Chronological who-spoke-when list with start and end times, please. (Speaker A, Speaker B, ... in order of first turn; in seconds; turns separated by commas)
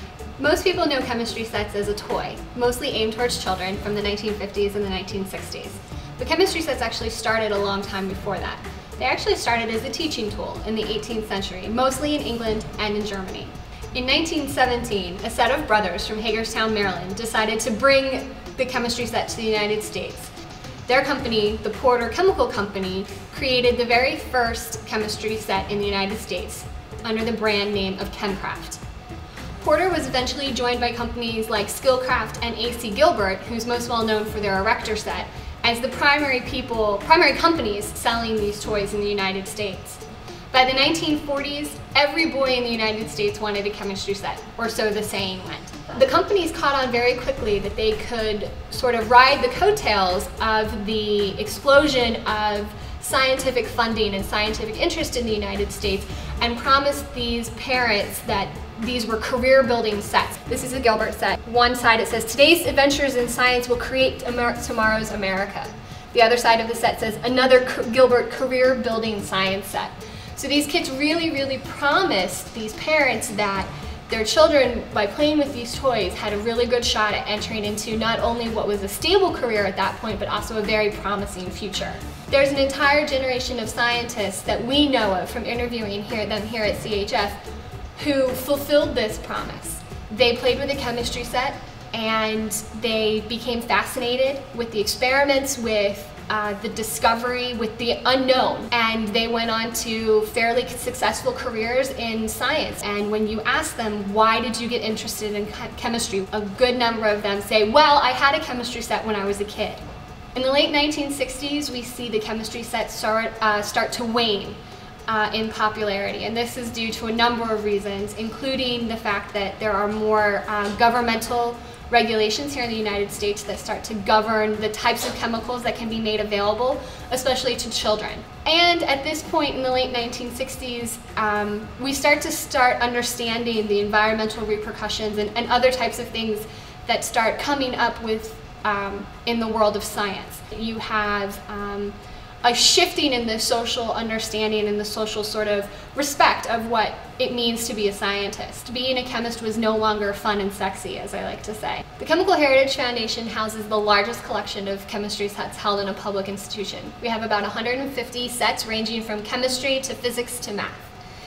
Speaker A: 0.4-20.3, Speaker A: 20.9-28.8, Speaker A: 29.6-87.4, Speaker A: 88.0-109.8, Speaker A: 110.3-160.9